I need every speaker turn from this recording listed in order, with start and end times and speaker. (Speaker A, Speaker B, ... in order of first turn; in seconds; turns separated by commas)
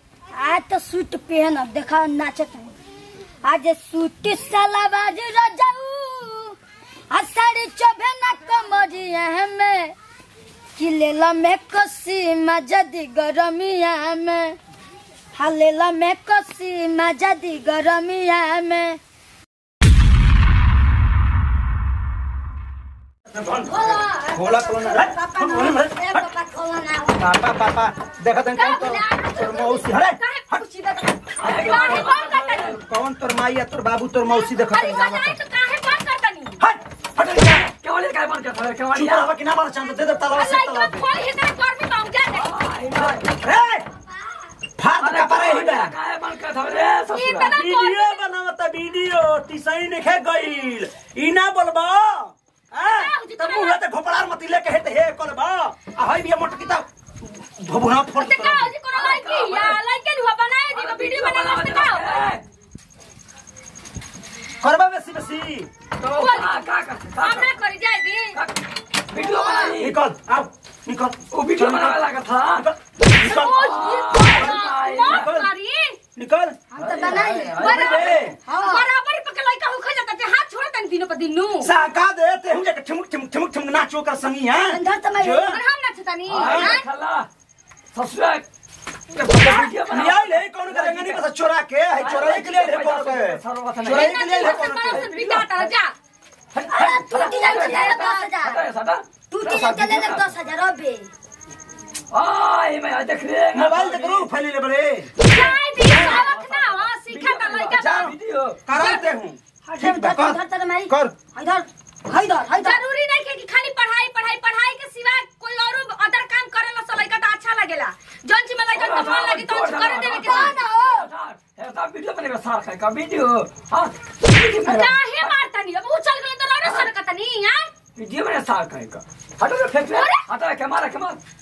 Speaker A: 0.4-2.8, Speaker A: 3.4-6.6, Speaker A: 7.1-9.9, Speaker A: 10.8-14.6, Speaker A: 15.3-19.0, Speaker B: 23.3-26.3, Speaker C: 23.7-24.3, Speaker A: 23.8-27.2, Speaker B: 27.2-30.6, Speaker C: 28.5-32.8, Speaker D: 31.4-32.8, Speaker B: 31.4-32.1, Speaker B: 32.7-35.4, Speaker C: 34.2-36.6, Speaker B: 36.6-37.7, Speaker D: 37.3-39.3, Speaker B: 38.9-41.1, Speaker C: 40.3-42.7, Speaker D: 42.3-43.4, Speaker B: 43.3-43.9, Speaker B: 44.8-46.0, Speaker D: 45.0-47.5, Speaker C: 47.1-48.2, Speaker B: 47.4-58.7, Speaker C: 52.8-53.8, Speaker C: 58.1-62.3, Speaker D: 58.9-59.8, Speaker D: 60.7-62.4, Speaker B: 64.6-65.7, Speaker D: 66.0-67.5, Speaker C: 66.1-68.4, Speaker D: 68.3-69.9, Speaker C: 69.2-69.7, Speaker B: 69.8-72.0, Speaker D: 71.3-72.7, Speaker B: 72.5-73.8, Speaker C: 73.2-76.0, Speaker D: 73.5-75.3, Speaker B: 74.4-75.5, Speaker B: 76.2-76.7, Speaker A: 76.7-77.6, Speaker D: 76.8-78.2, Speaker C: 77.5-81.7, Speaker B: 77.6-78.4, Speaker A: 78.5-78.9, Speaker B: 81.6-85.6, Speaker A: 84.6-85.5, Speaker C: 85.5-86.9, Speaker D: 86.3-87.3, Speaker B: 86.4-86.8, Speaker D: 87.9-88.5, Speaker D: 89.2-91.2, Speaker B: 89.2-95.1, Speaker D: 92.0-95.8, Speaker C: 93.8-95.9, Speaker D: 96.5-100.3, Speaker A: 96.7-98.6, Speaker C: 97.4-98.2, Speaker A: 99.3-101.1, Speaker D: 102.1-104.3, Speaker B: 103.5-105.1, Speaker C: 105.2-108.1, Speaker A: 105.3-106.1, Speaker D: 105.8-108.6, Speaker B: 105.9-106.2, Speaker B: 107.8-111.2, Speaker A: 108.8-109.0, Speaker A: 109.7-112.8, Speaker C: 112.5-120.6, Speaker D: 118.7-125.4, Speaker A: 120.2-121.1, Speaker C: 124.6-127.7, Speaker D: 126.6-126.9, Speaker D: 128.0-131.2, Speaker C: 129.9-130.2